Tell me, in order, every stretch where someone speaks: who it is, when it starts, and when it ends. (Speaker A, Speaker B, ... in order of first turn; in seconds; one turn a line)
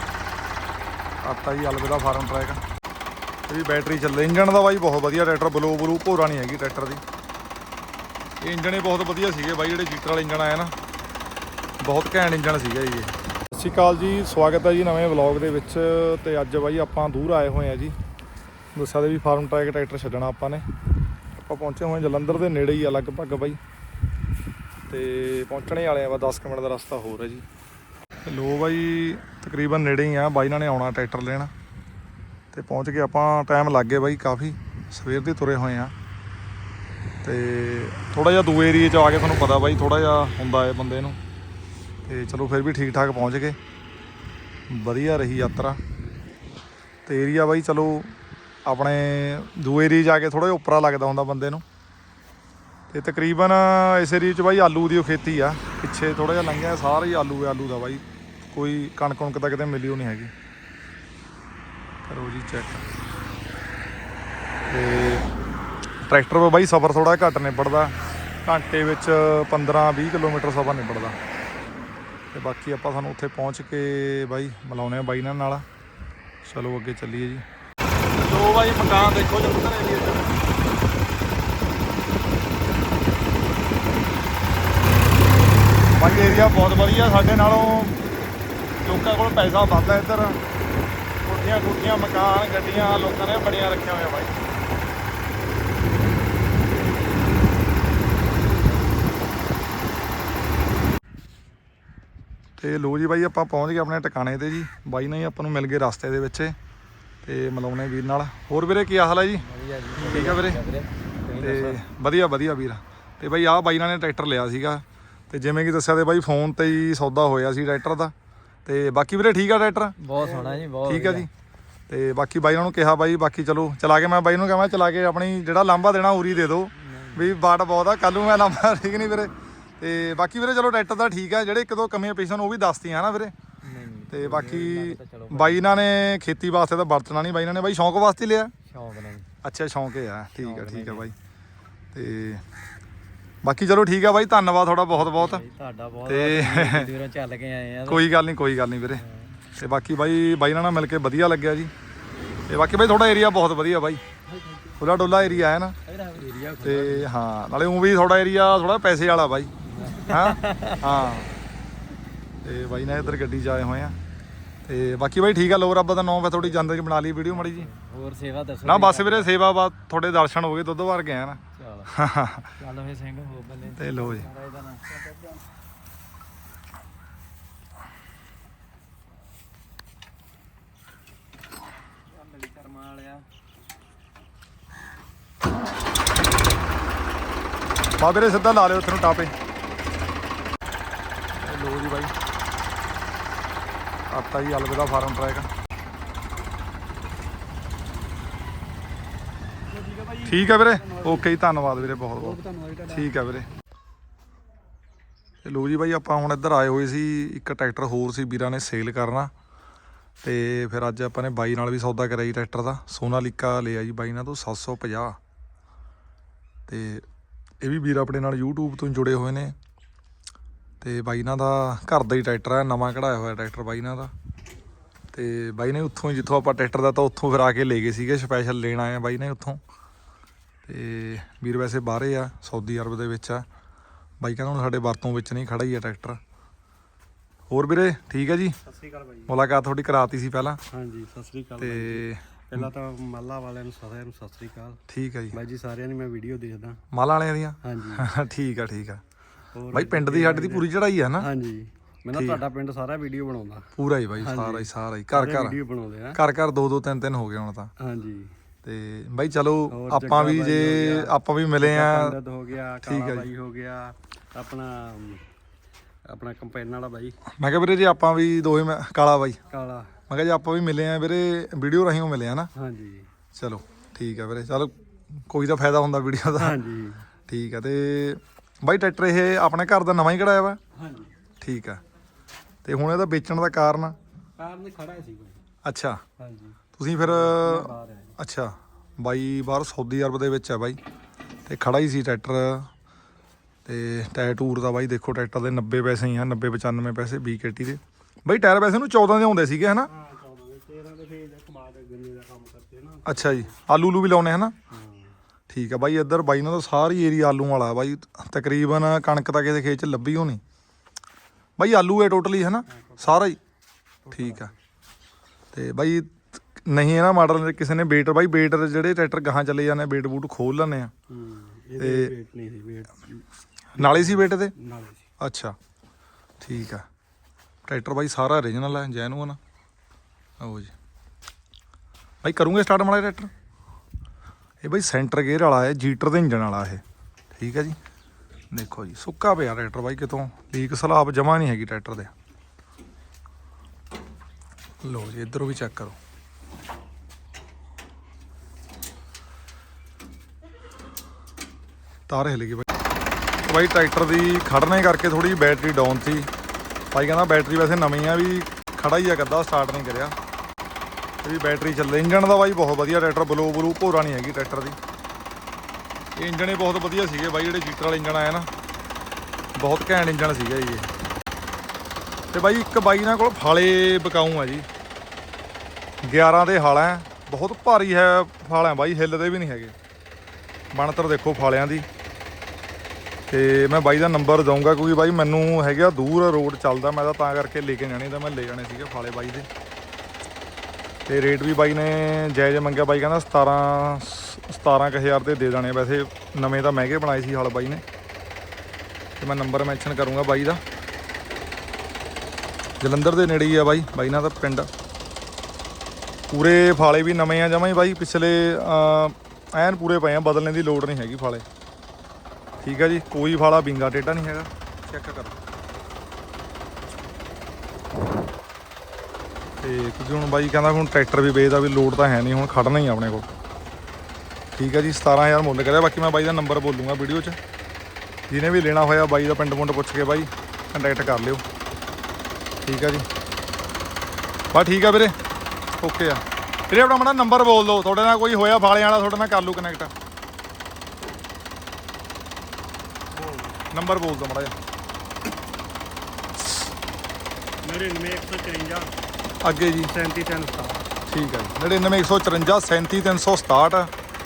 Speaker A: 1.2-2.6
Speaker A: 3.5-7.0
Speaker A: 8.4-10.7
Speaker A: 11.8-17.9
Speaker A: 18.7-20.6
Speaker A: 21.3-23.6
Speaker A: 24.9-27.4
Speaker A: 28.2-31.5
Speaker A: 32.5-35.9
Speaker A: 37.2-41.2
Speaker A: 42.0-43.6
Speaker A: 44.7-45.8
Speaker A: 47.0-48.1
Speaker A: 48.7-51.6
Speaker A: 52.9-60.3
Speaker A: 62.1-62.9
Speaker A: 64.7-65.3
Speaker A: 66.0-71.2
Speaker A: 72.3-75.6
Speaker A: 76.4-77.4
Speaker A: 78.1-80.4
Speaker A: 86.0-88.0
Speaker A: 88.8-90.4
Speaker A: 91.2-94.4
Speaker A: 102.6-106.5
Speaker A: 107.2-109.4
Speaker B: 109.3-111.8
Speaker A: 110.0-110.6
Speaker A: 111.4-118.1
Speaker A: 118.7-121.3
Speaker B: 120.0-121.3
Speaker A: 121.9-133.3
Speaker B: 126.7-127.4
Speaker B: 133.6-135.7
Speaker A: 134.1-138.5
Speaker B: 138.7-139.3
Speaker A: 139.4-141.1
Speaker B: 140.4-141.1
Speaker A: 141.9-142.4
Speaker A: 143.4-145.4
Speaker B: 144.9-148.1
Speaker A: 146.1-146.9
Speaker A: 147.8-149.0
Speaker B: 148.9-149.3
Speaker A: 149.6-151.7
Speaker A: 152.5-154.0
Speaker A: 154.8-155.8
Speaker B: 155.1-157.1
Speaker A: 156.6-159.5
Speaker B: 159.7-160.9
Speaker A: 160.1-161.3
Speaker A: 162.4-164.0
Speaker A: 164.7-167.7
Speaker B: 167.3-169.3
Speaker A: 168.6-172.5
Speaker B: 171.6-171.9
Speaker B: 172.6-175.0
Speaker A: 173.8-174.3
Speaker B: 182.2-183.2
Speaker A: 188.0-189.3
Speaker A: 191.4-192.1
Speaker A: 194.1-195.5
Speaker C: 199.8-201.2
Speaker A: 200.2-203.5
Speaker C: 202.1-202.8
Speaker A: 205.4-209.3
Speaker A: 210.2-215.2
Speaker A: 216.7-217.0
Speaker A: 217.6-219.5
Speaker A: 220.8-224.1
Speaker A: 225.1-229.6
Speaker A: 230.7-233.4
Speaker A: 234.2-236.2
Speaker A: 237.5-238.6
Speaker B: 238.7-239.0
Speaker A: 239.3-240.6
Speaker C: 240.7-244.8
Speaker A: 241.6-242.7
Speaker B: 244.2-244.6
Speaker A: 244.9-245.4
Speaker C: 245.3-246.8
Speaker A: 246.9-249.0
Speaker C: 247.6-248.0
Speaker C: 249.6-250.7
Speaker A: 249.7-251.3
Speaker C: 251.2-253.7
Speaker A: 252.1-252.4
Speaker A: 253.8-255.6
Speaker C: 254.2-256.2
Speaker A: 256.1-257.7
Speaker B: 257.9-258.2
Speaker A: 258.6-262.1
Speaker C: 259.7-265.2
Speaker A: 262.8-263.3
Speaker C: 266.1-267.1
Speaker A: 267.4-269.4
Speaker C: 269.5-269.9
Speaker A: 270.1-272.5
Speaker C: 272.6-273.0
Speaker A: 273.3-274.7
Speaker A: 275.3-276.6
Speaker C: 276.4-277.0
Speaker A: 277.3-280.6
Speaker C: 280.8-281.1
Speaker A: 281.4-281.8
Speaker A: 282.6-283.9
Speaker C: 284.4-285.4
Speaker A: 285.6-286.0
Speaker C: 286.2-288.1
Speaker A: 286.8-290.8
Speaker A: 291.4-292.7
Speaker A: 293.6-299.9
Speaker C: 299.9-303.5
Speaker A: 303.1-304.5
Speaker C: 304.7-305.1
Speaker A: 305.5-310.4
Speaker A: 311.6-313.4
Speaker C: 314.1-314.5
Speaker A: 314.1-314.5
Speaker A: 315.5-320.9
Speaker C: 321.1-323.1
Speaker A: 321.8-322.1
Speaker A: 323.7-324.5
Speaker C: 323.9-325.0
Speaker A: 325.2-325.5
Speaker A: 326.4-326.8
Speaker A: 327.7-329.4
Speaker A: 330.4-330.7
Speaker A: 332.2-333.3
Speaker A: 334.6-336.8
Speaker A: 337.3-337.8
Speaker A: 338.5-342.1
Speaker A: 344.8-346.0
Speaker A: 352.1-352.7
Speaker A: 353.4-356.3
Speaker A: 356.9-360.1
Speaker A: 361.2-364.8
Speaker A: 366.2-368.5
Speaker A: 369.6-370.9
Speaker A: 372.3-374.6
Speaker A: 376.0-379.7
Speaker A: 380.7-381.9
Speaker A: 383.3-389.5
Speaker A: 391.1-397.8
Speaker A: 399.2-400.6
Speaker A: 402.8-404.7
Speaker A: 406.3-411.4
Speaker A: 412.6-415.4
Speaker A: 419.6-423.3
Speaker A: 424.5-427.4
Speaker A: 428.3-431.4
Speaker A: 432.6-433.0
Speaker A: 434.5-435.1
Speaker A: 435.8-439.9
Speaker C: 443.2-443.6
Speaker A: 443.7-444.5
Speaker C: 447.6-448.9
Speaker A: 449.4-449.9
Speaker C: 449.9-450.8
Speaker B: 450.1-450.5
Speaker A: 451.1-453.9